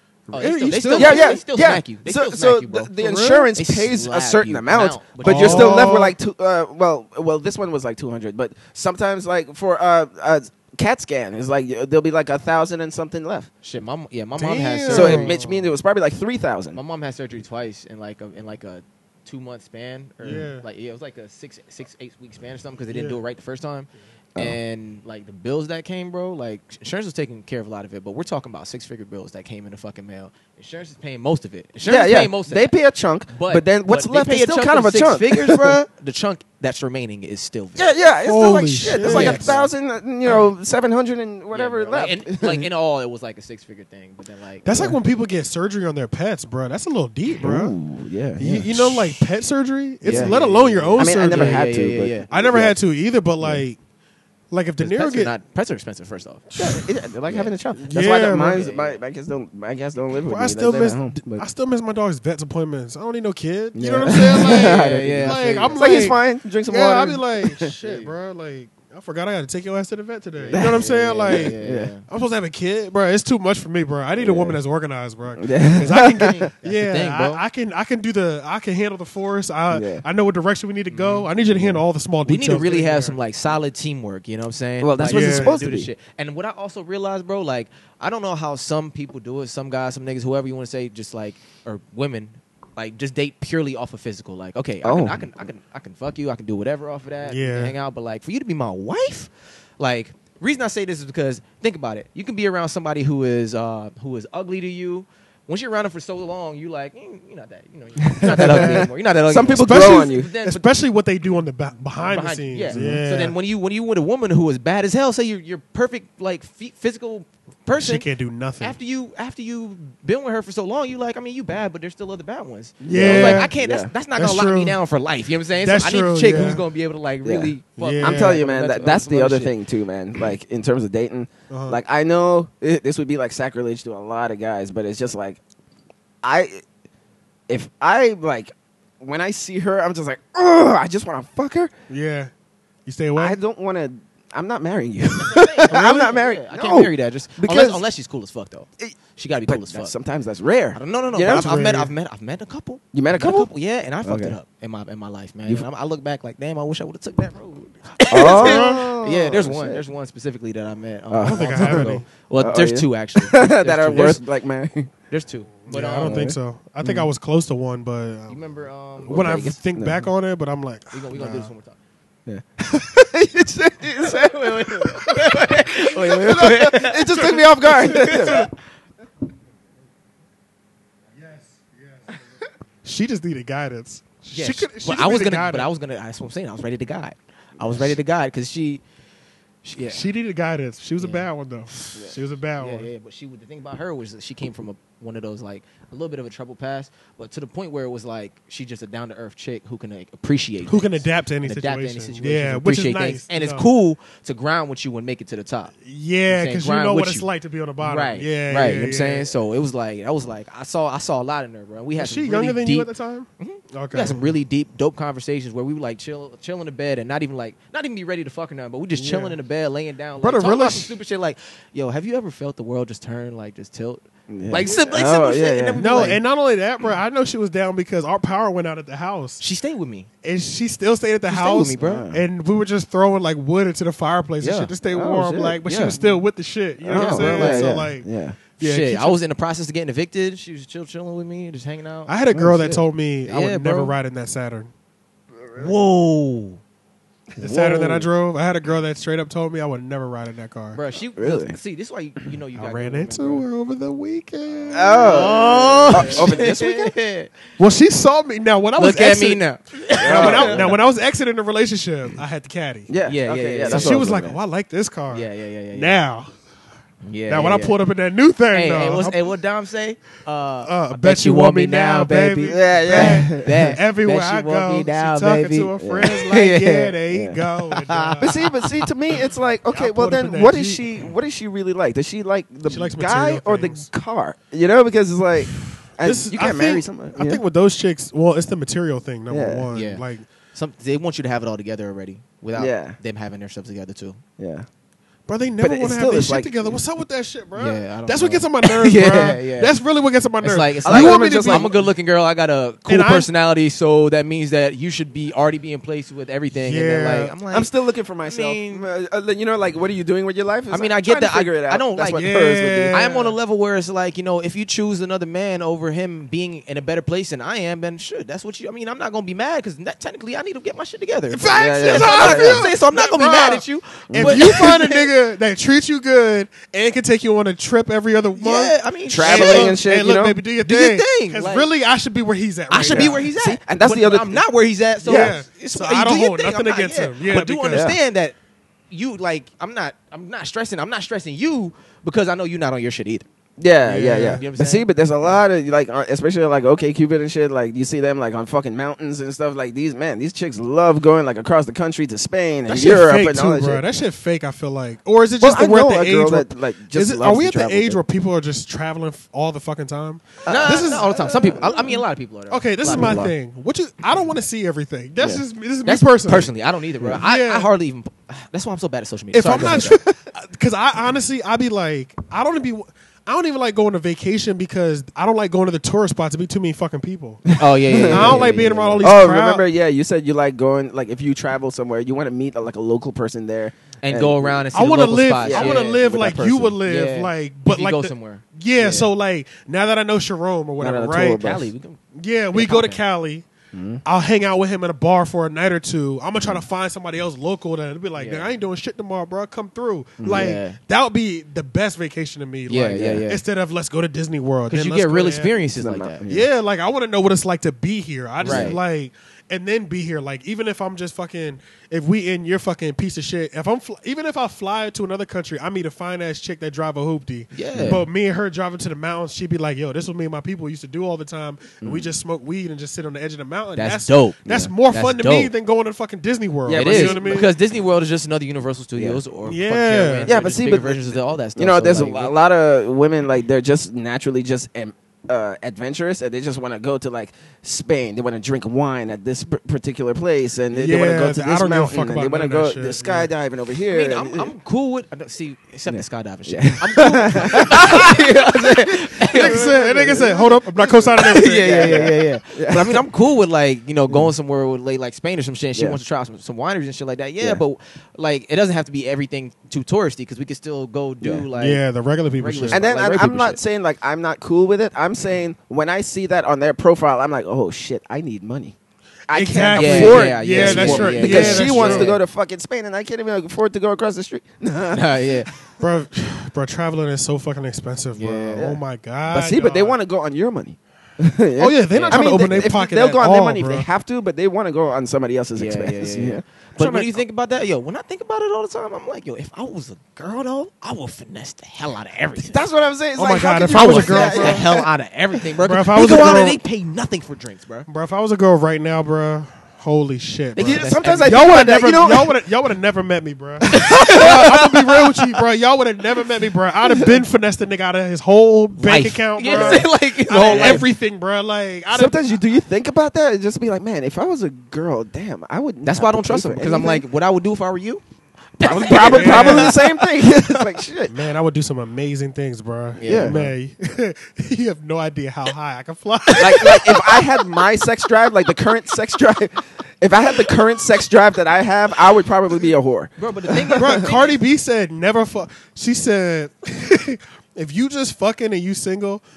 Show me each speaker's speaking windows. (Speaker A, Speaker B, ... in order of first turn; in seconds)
Speaker A: 0.3-1.4, 3.0-3.5, 5.2-6.2, 14.4-15.7, 20.2-20.6, 22.9-23.2, 38.2-39.6, 44.6-47.7, 48.4-51.7, 52.3-53.8, 54.5-55.3, 56.5-56.8, 57.9-58.7, 60.2-71.6, 72.1-83.2, 85.0-85.5, 97.3-97.8, 108.3-108.9, 109.5-113.3, 117.8-118.8, 122.9-123.5, 124.2-124.8, 125.6-126.6, 127.8-128.4, 131.5-131.8, 141.9-142.3, 142.9-143.4, 151.2-151.9, 158.1-158.9, 161.2-162.1, 163.9-164.2, 165.7-168.4, 169.1-171.5, 177.1-178.5, 181.2-182.2, 182.8-185.7, 189.8-192.9, 200.7-203.7, 205.8-209.3, 212.0-214.3, 219.0-219.4, 220.2-220.9, 225.8-229.4, 230.2-238.1, 238.6-239.2, 242.1-244.7, 247.4-250.8, 252.6-256.4, 257.6-259.4, 260.0-262.9, 263.6-266.3, 267.3-269.2, 270.6-278.4, 279.7-280.8, 282.7-283.9, 286.0-290.3, 295.3-301.9, 302.9-303.3, 306.5-307.3, 312.1-313.4, 321.3-333.3, 335.1-337.9, 343.9-344.4, 352.7-361.9, 362.5-366.5, 367.1-367.7, 369.3-379.6, 384.7-391.5, 392.1-393.5, 394.1-405.6, 406.3-427.5, 429.4-430.4, 440.7-443.3, 449.3-452.1, 461.6-462.9, 469.3-472.2, 475.8-480.0, 481.6-483.9, 493.2-494.7, 495.6-496.6, 497.9-512.4, 519.0-519.8, 521.1-527.3, 533.7-539.2
Speaker B: 0.3-5.9, 13.6-15.4, 16.8-32.7, 33.3-37.9, 38.9-39.7, 41.5-44.9, 50.0-52.3, 54.8-56.5, 58.3-59.0, 64.4-66.1, 67.8-68.1, 70.4-72.0, 75.8-77.4, 80.9-81.3, 82.3-110.7, 112.0-118.1, 118.6-129.5, 145.2-149.9, 150.8-164.2, 165.1-166.3, 168.3-169.4, 170.9-171.8, 173.9-178.5, 184.3-188.8, 189.6-190.1, 191.0-192.1, 192.6-205.7, 206.3-207.3, 207.8-226.2, 229.4-230.1, 231.3-232.1, 234.4-234.7, 235.7-236.0, 236.9-237.7, 238.6-242.2, 243.3-243.9, 245.6-246.6, 250.7-253.4, 254.5-257.4, 258.8-260.8, 263.1-264.0, 265.1-266.0, 267.1-267.8, 268.5-276.4, 277.7-278.9, 289.7-294.2, 297.6-299.8, 300.4-307.7, 308.2-308.9, 310.7-325.1, 328.4-329.8, 330.6-331.7, 332.7-338.4, 338.9-343.2, 344.0-344.9, 360.5-363.3, 365.9-370.0, 377.6-379.1, 384.0-389.1, 391.4-392.0, 392.5-393.0, 398.2-398.5, 400.3-400.8, 402.7-403.4, 404.7-406.2, 408.4-408.8, 417.5-418.0, 423.8-425.5, 426.7-432.4, 443.9-449.7, 451.2-461.8, 462.4-463.6, 469.7-472.2, 474.9-475.5, 478.2-478.7, 481.9-482.7, 485.6-492.6, 493.7-497.9, 500.6-501.4, 503.7-505.4, 508.8-510.9, 515.9-518.0, 518.6-520.8, 523.0-523.5, 533.2-534.4
Speaker C: 0.9-13.5, 14.9-16.8, 31.9-35.9, 37.8-42.7, 47.4-49.2, 50.1-50.5, 51.0-52.8, 56.6-61.5, 63.8-67.7, 70.5-71.9, 74.2-74.6, 75.4-76.4, 79.7-80.0, 81.5-81.8, 84.8-85.9, 94.8-95.3, 108.0-110.3, 112.7-113.0, 122.8-123.9, 127.2-135.4, 136.2-136.6, 137.5-141.7, 143.2-147.8, 149.5-151.6, 152.9-153.5, 154.0-154.4, 158.1-159.8, 161.1-164.9, 166.0-167.1, 169.1-170.1, 172.3-178.5, 224.3-226.2, 231.8-232.2, 234.8-235.7, 236.8-238.4, 242.3-242.8, 247.3-248.1, 251.2-251.6, 254.7-256.9, 260.0-260.8, 262.9-264.4, 272.5-273.8, 275.8-277.4, 278.2-287.4, 289.3-289.7, 292.6-293.0, 294.4-294.7, 295.6-296.8, 300.9-301.7, 307.5-313.1, 321.5-322.7, 324.1-324.6, 329.1-330.4, 332.9-334.4, 335.0-335.4, 337.7-338.0, 343.6-353.8, 355.4-358.0, 360.4-362.0, 362.9-363.3, 369.5-370.2, 377.5-384.6, 385.4-385.9, 390.8-391.7, 393.7-394.0, 400.2-400.5, 405.7-406.5, 408.4-408.8, 417.7-418.0, 421.8-422.1, 426.7-427.4, 429.0-429.2, 430.3-444.5, 445.9-453.0, 461.2-461.5, 462.7-468.8, 469.3-475.3, 478.6-487.2, 492.4-494.9, 500.6-502.3, 503.6-504.3, 509.4-510.9, 511.9-517.0, 518.6-521.2, 523.0-523.4, 526.4-534.0